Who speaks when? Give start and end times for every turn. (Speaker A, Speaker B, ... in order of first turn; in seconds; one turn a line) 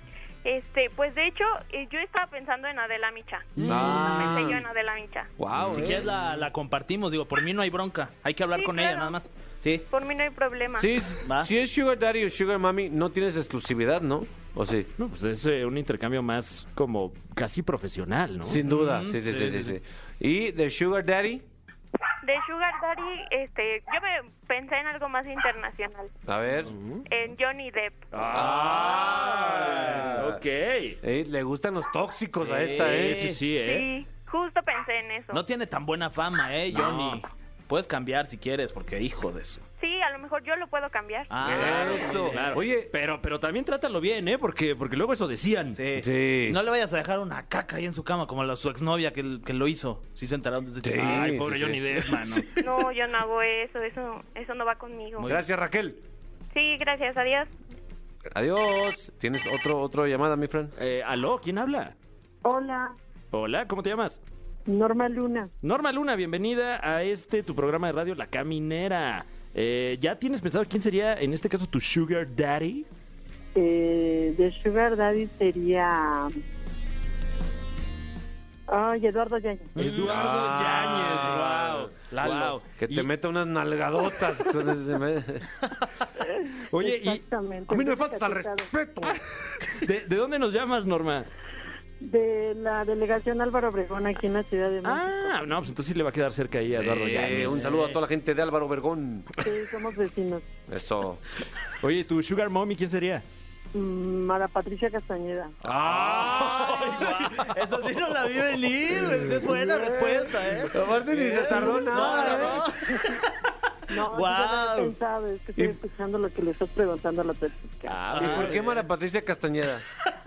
Speaker A: 0.4-5.3
Speaker B: 3.6-4.3
Speaker C: 3.6-4.3
Speaker D: 3.6-4.6
Speaker D: 5.4-6.1
Speaker C: 5.6-6.2
Speaker B: 5.7-9.9
Speaker A: 8.5-9.2
Speaker A: 9.9-11.0
Speaker D: 10.8-14.9
Speaker B: 11.2-11.5
Speaker C: 15.0-18.6
Speaker D: 18.5-21.4
Speaker B: 18.6-19.8
Speaker A: 22.2-26.1
Speaker D: 26.3-26.7
Speaker C: 26.7-27.0
Speaker A: 27.1-28.1
Speaker C: 28.1-31.0
Speaker D: 28.3-30.4
Speaker D: 31.0-33.3
Speaker B: 32.4-33.4
Speaker C: 32.7-33.9
Speaker A: 33.6-35.4
Speaker B: 35.3-39.6
Speaker C: 36.7-37.2
Speaker A: 39.8-41.3
Speaker B: 41.3-42.6
Speaker D: 41.4-42.9
Speaker C: 41.8-45.8
Speaker B: 45.8-52.7
Speaker D: 46.0-46.6
Speaker D: 50.8-51.8
Speaker C: 51.0-52.5
Speaker A: 52.6-55.4
Speaker B: 55.2-55.4
Speaker D: 55.2-56.0
Speaker A: 56.5-57.5
Speaker D: 58.3-60.7
Speaker C: 60.8-61.9
Speaker E: 62.4-63.0
Speaker C: 63.3-64.2
Speaker E: 64.7-65.5
Speaker C: 65.6-72.9
Speaker E: 73.5-76.3
Speaker E: 78.7-79.7
Speaker B: 79.8-80.3
Speaker C: 79.8-83.1
Speaker D: 80.0-85.5
Speaker B: 81.0-82.6
Speaker C: 86.7-87.2
Speaker E: 86.8-88.7
Speaker D: 87.7-89.2
Speaker C: 89.1-91.3
Speaker E: 92.0-95.2
Speaker C: 94.8-97.7
Speaker D: 96.7-99.3
Speaker B: 97.3-98.0
Speaker E: 99.4-100.5
Speaker D: 100.7-101.2
Speaker C: 101.8-103.2
Speaker E: 103.7-105.5
Speaker D: 105.6-107.0
Speaker C: 105.7-107.6
Speaker B: 106.3-113.3
Speaker D: 109.4-112.8
Speaker E: 113.9-118.0
Speaker B: 114.0-115.0
Speaker C: 117.9-118.6
Speaker B: 118.1-118.8
Speaker D: 118.2-119.8